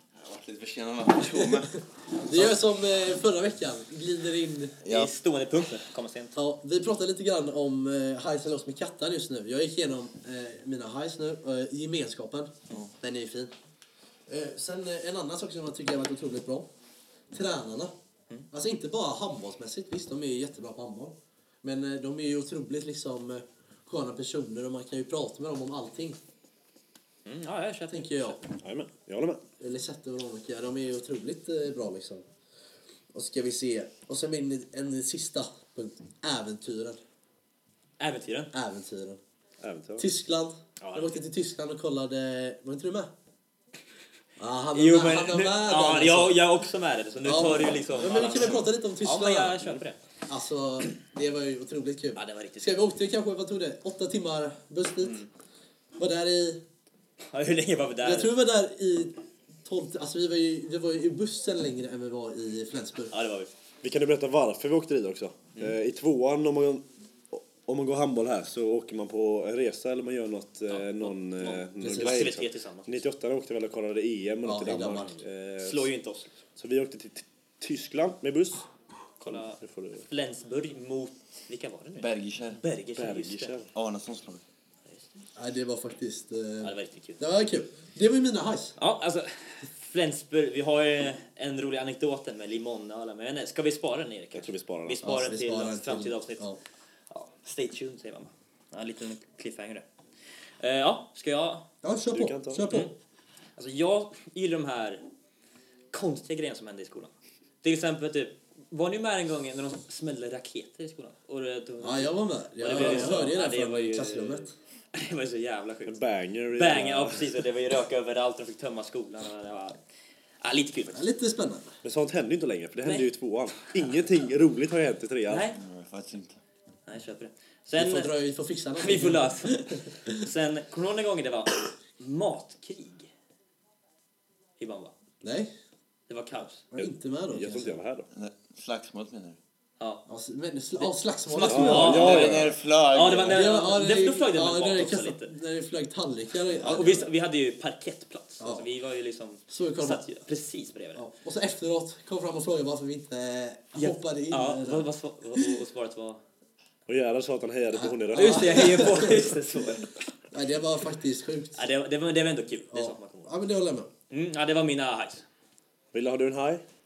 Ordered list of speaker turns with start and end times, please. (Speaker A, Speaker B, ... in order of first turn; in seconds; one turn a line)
Speaker A: 0.2-1.7
Speaker B: 1.2-1.7
Speaker B: 2.2-4.8
Speaker A: 4.8-5.1
Speaker C: 4.9-6.3
Speaker B: 6.4-13.5
Speaker B: 14.3-16.7
Speaker B: 17.3-17.9
Speaker B: 18.5-26.2
Speaker C: 27.3-28.4
Speaker B: 27.9-28.4
Speaker D: 28.6-29.4
Speaker B: 29.6-32.2
Speaker B: 33.1-37.0
Speaker C: 38.0-38.5
Speaker B: 38.5-39.2
Speaker D: 39.6-40.1
Speaker B: 40.0-43.1
Speaker C: 40.8-41.2
Speaker B: 44.4-46.4
Speaker C: 44.7-50.0
Speaker B: 47.2-49.6
Speaker B: 50.3-55.2
Speaker C: 52.2-52.8
Speaker C: 55.0-55.3
Speaker B: 56.0-56.6
Speaker C: 57.3-58.4
Speaker B: 58.0-63.1
Speaker C: 63.1-63.5
Speaker D: 63.8-75.9
Speaker C: 70.7-73.0
Speaker B: 71.8-72.3
Speaker B: 74.4-75.2
Speaker C: 75.6-76.3
Speaker D: 76.6-78.7
Speaker C: 79.2-83.5
Speaker D: 79.3-80.1
Speaker A: 82.0-82.6
Speaker D: 83.0-83.7
Speaker A: 83.7-84.4
Speaker B: 85.4-88.8
Speaker C: 86.6-87.2
Speaker C: 88.8-96.4
Speaker D: 94.3-95.0
Speaker B: 95.0-96.6
Speaker C: 97.1-99.8
Speaker C: 100.6-101.7
Speaker B: 101.8-102.9
Speaker D: 102.1-102.7
Speaker C: 103.6-105.0
Speaker C: 105.9-107.1
Speaker C: 107.6-116.0
Speaker B: 111.8-114.5
Speaker D: 112.7-113.3
Speaker D: 115.9-117.4
Speaker C: 116.5-119.8
Speaker C: 120.4-121.1
Speaker B: 120.9-121.7
Speaker D: 121.8-125.5
Speaker C: 125.3-125.6
Speaker A: 125.5-126.4
Speaker C: 126.9-128.1
Speaker B: 127.8-130.2
Speaker C: 128.8-133.1
Speaker C: 134.6-134.9
Speaker B: 135.2-135.5
Speaker C: 136.1-136.7
Speaker B: 136.7-137.8
Speaker D: 136.8-138.1
Speaker A: 138.1-139.4
Speaker C: 139.8-140.1
Speaker B: 140.1-142.2
Speaker C: 140.8-145.3
Speaker D: 141.4-142.5
Speaker A: 141.8-143.6
Speaker B: 143.3-147.1
Speaker C: 146.6-151.0
Speaker B: 148.4-148.7
Speaker B: 149.5-150.0
Speaker B: 150.9-155.6
Speaker C: 153.8-156.2
Speaker D: 156.9-158.8
Speaker B: 157.7-159.3
Speaker C: 158.1-159.9
Speaker B: 160.3-161.7
Speaker C: 161.6-163.3
Speaker B: 162.7-163.9
Speaker C: 164.1-165.2
Speaker D: 165.9-166.6